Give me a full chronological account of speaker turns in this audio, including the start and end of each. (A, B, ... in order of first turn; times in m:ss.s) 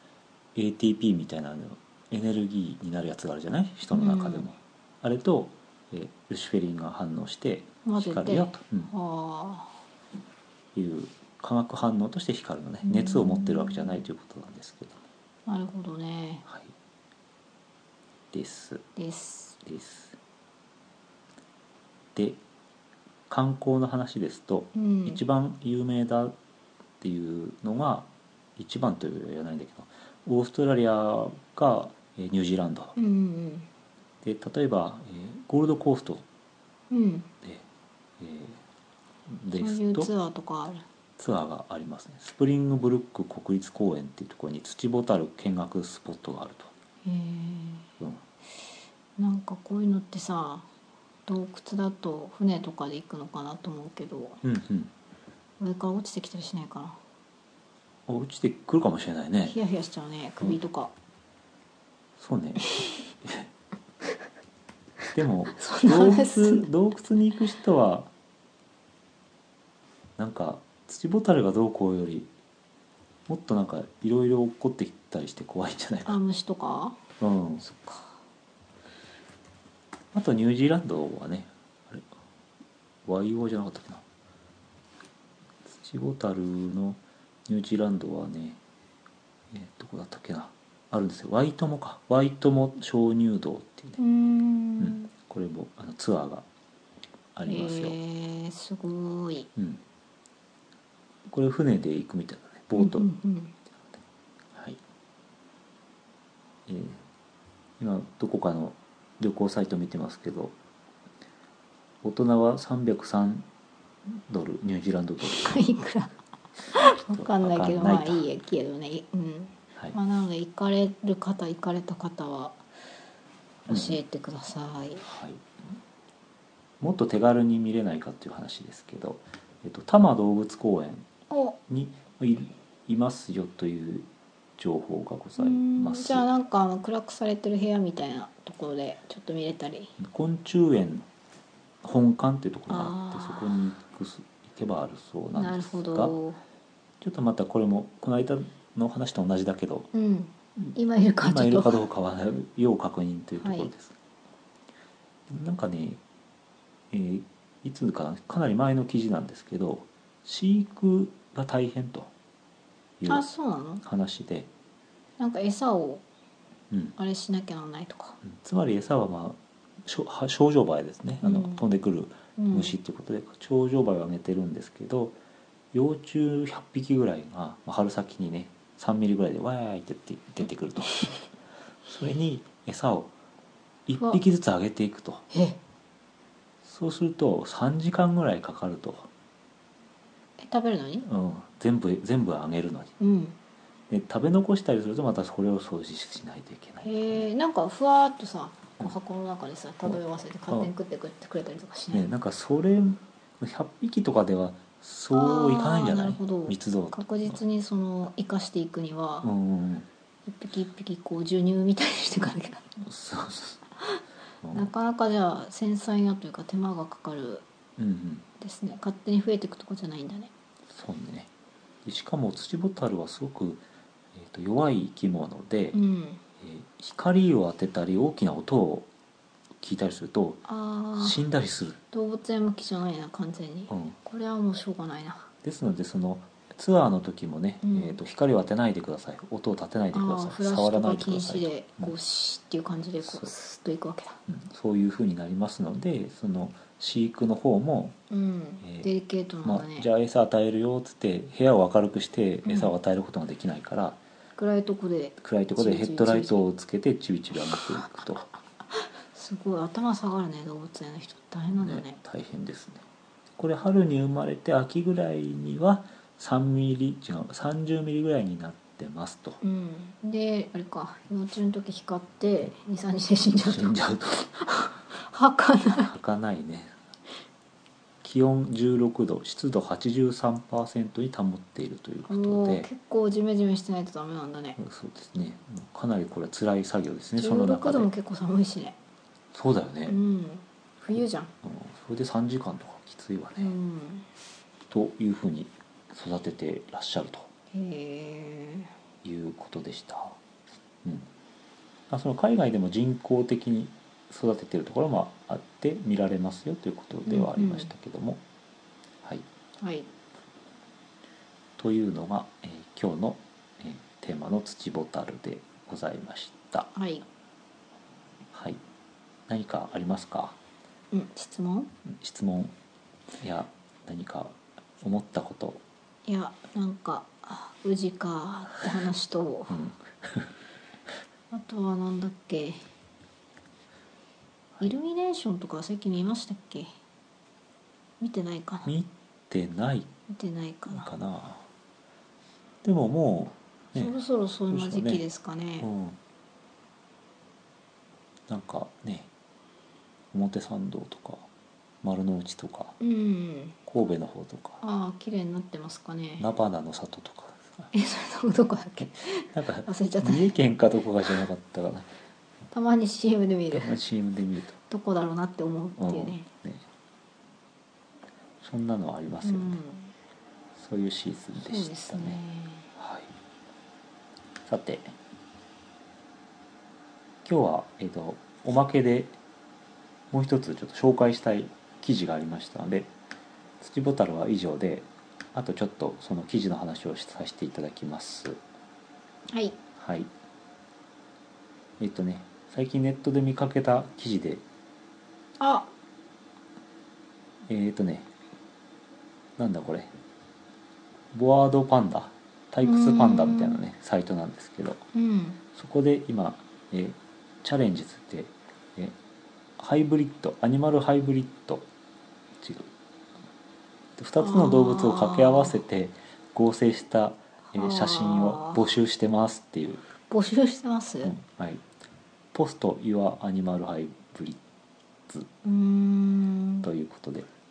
0:00.6-0:08.9 A
0:03.9-0:04.5 B
0:07.8-0:09.8 B
0:10.7-0:15.0 A
0:12.8-0:14.0 B
0:15.5-0:16.4 B
0:16.5-0:16.7 A
0:18.3-0:18.9 A
0:19.0-0:19.6 B
0:19.6-0:20.2 A
0:22.2-0:22.4 A
0:23.3-0:26.4 A
0:24.7-0:25.2 B
0:27.0-0:33.0 A
0:33.0-0:33.7 B
0:34.2-0:36.2 A
0:36.9-0:37.3 B
0:38.2-0:38.6 A
0:39.3-0:40.1 A
0:39.5-0:40.8 B
0:41.2-0:46.7 A
0:47.0-0:47.9 B
0:49.2-0:50.7 B
0:51.3-0:54.4 B
0:54.4-0:54.9 A
0:55.6-0:57.0 B
0:58.1-0:59.6 A
0:59.4-1:00.9 B
1:02.2-1:02.7 A
1:02.7-1:03.0 B
1:03.2-1:03.5 A
1:05.1-1:08.1 A
1:05.5-1:06.7 B
1:10.2-1:12.3 A
1:13.3-1:16.2 A
1:16.1-1:17.0 B
1:17.2-1:17.6 A
1:17.6-1:18.2 B
1:20.1-1:22.1 A
1:23.0-1:24.0 A
1:25.7-1:28.6 A
1:29.5-1:34.0 A
1:34.0-1:35.1 B
1:34.8-1:36.5 A
1:37.4-1:38.0 A
1:37.5-1:39.5 B
1:39.6-1:39.8 A
1:41.3-1:43.1 A
1:42.8-1:43.6 B
1:44.5-1:44.8 A
1:46.7-1:47.0 A
1:47.8-1:50.6 A
1:52.0-1:53.5 A
1:54.1-1:55.6 A
1:55.2-1:56.2 B
1:56.7-2:02.6 B
1:57.1-1:58.3 A
2:03.7-2:05.1 B
2:03.7-2:04.0 A
2:05.0-2:05.5 A
2:06.8-2:11.1 A
2:11.3-2:11.6 B
2:11.7-2:16.3 A
2:15.4-2:19.9 B
2:20.0-2:21.1 A
2:21.8-2:26.2 A
2:22.7-2:23.6 B
2:25.4-2:26.4 B
2:27.0-2:29.9 A
2:29.9-2:31.8 B
2:30.6-2:34.0 A
2:33.4-2:33.7 B
2:35.3-2:36.0 A
2:36.9-2:42.1 A
2:43.0-2:43.3 A
2:43.1-2:43.8 B
2:43.8-2:44.5 A
2:45.2-2:46.0 B
2:46.7-2:47.0 A
2:47.0-2:48.2 B
2:48.2-2:55.2 A
2:51.2-2:51.6 B
2:52.4-2:52.8 B
2:55.7-3:01.1 A
3:01.9-3:03.1 A
3:03.9-3:05.2 A
3:05.3-3:05.6 B
3:06.6-3:09.1 A
3:10.4-3:11.1 B
3:11.1-3:13.0 A
3:13.0-3:13.4 B
3:13.9-3:17.3 A
3:16.8-3:22.1 B
3:19.8-3:20.7 A
3:21.9-3:27.4 A
3:25.1-3:29.3 B
3:29.2-3:29.9 A
3:30.3-3:32.9 B
3:32.9-3:33.6 A
3:34.4-3:34.7 A
3:34.5-3:37.4 B
3:37.8-3:38.2 A
3:38.4-3:40.3 B
3:40.7-3:41.3 A
3:41.8-3:45.8 A
3:45.7-3:46.2 B
3:46.4-3:48.9 A
3:49.6-3:50.4 A
3:50.5-3:51.2 B
3:51.0-3:51.8 A
3:51.9-3:55.3 B
3:53.7-3:54.0 A
3:55.4-4:01.9 A
3:57.6-3:58.0 B
3:59.9-4:04.2 B
4:03.0-4:03.3 A
4:04.3-4:08.0 A
4:08.1-4:09.9 B
4:08.6-4:08.9 A
4:09.4-4:14.0 A
4:12.4-4:12.7 B
4:14.4-4:16.4 B
4:15.2-4:18.3 A
4:19.1-4:22.0 B
4:21.6-4:22.8 A
4:23.4-4:29.4 A
4:29.4-4:35.9 B
4:33.4-4:34.3 A
4:35.8-4:36.8 A
4:38.0-4:42.7 A
4:42.1-4:44.6 B
4:44.6-4:47.9 A
4:47.2-4:48.8 B
4:49.3-4:50.0 A
4:49.9-4:51.3 B
4:51.0-4:53.5 A
4:53.4-4:54.1 B
4:54.7-4:57.3 A
4:57.5-4:58.7 B
4:59.0-5:00.2 A
5:00.8-5:01.1 A
5:01.9-5:08.2 A
5:07.1-5:07.7 B
5:09.6-5:09.9 B
5:11.6-5:16.7 A
5:16.7-5:17.0 B
5:18.3-5:18.6 A
5:19.3-5:20.4 A
5:20.9-5:21.7 B
5:21.8-5:22.5 A
5:23.2-5:25.6 A
5:26.1-5:29.6 B
5:29.5-5:30.3 A
5:31.3-5:32.6 B
5:34.6-5:36.7 B
5:38.0-5:38.7 B
5:38.6-5:39.9 A
5:40.1-5:40.9 B
5:40.7-5:41.5 A
5:42.6-5:44.0 A
5:43.8-5:45.7 B
5:44.5-5:45.0 A
5:45.6-5:46.0 A
5:48.3-5:49.1 A
5:50.1-5:51.3 A
5:51.8-5:52.8 A
5:52.8-5:53.6 B
5:53.7-5:54.6 A
5:54.6-5:56.3 B
5:56.2-5:57.7 A
5:57.7-6:00.3 B
5:59.3-6:01.9 A
6:02.5-6:03.8 B
6:03.5-6:04.6 A
6:04.7-6:06.3 B
6:05.8-6:06.6 A
6:08.4-6:09.6 A
6:09.2-6:09.9 B
6:10.6-6:12.2 A
6:11.4-6:12.7 B
6:12.8-6:13.1 A
6:14.5-6:15.0 A
6:17.2-6:19.2 A
6:20.1-6:22.9 A
6:23.6-6:28.4 A
6:29.3-6:29.6 B
6:29.8-6:30.1 A
6:31.8-6:34.4 A
6:35.4-6:35.7 B
6:37.5-6:38.1 A
6:39.4-6:39.9 A
6:41.1-6:44.8 A
6:42.6-6:43.6 B
6:44.9-6:45.4 B
6:45.6-6:49.0 A
6:49.6-6:51.7 A
6:52.4-6:52.7 A
6:54.0-6:59.8 A
6:54.2-6:55.6 B
6:57.5-6:58.6 B
7:00.1-7:01.2 B
7:01.0-7:01.6 A
7:02.3-7:04.4 A
7:05.4-7:06.7 B
7:06.6-7:07.3 A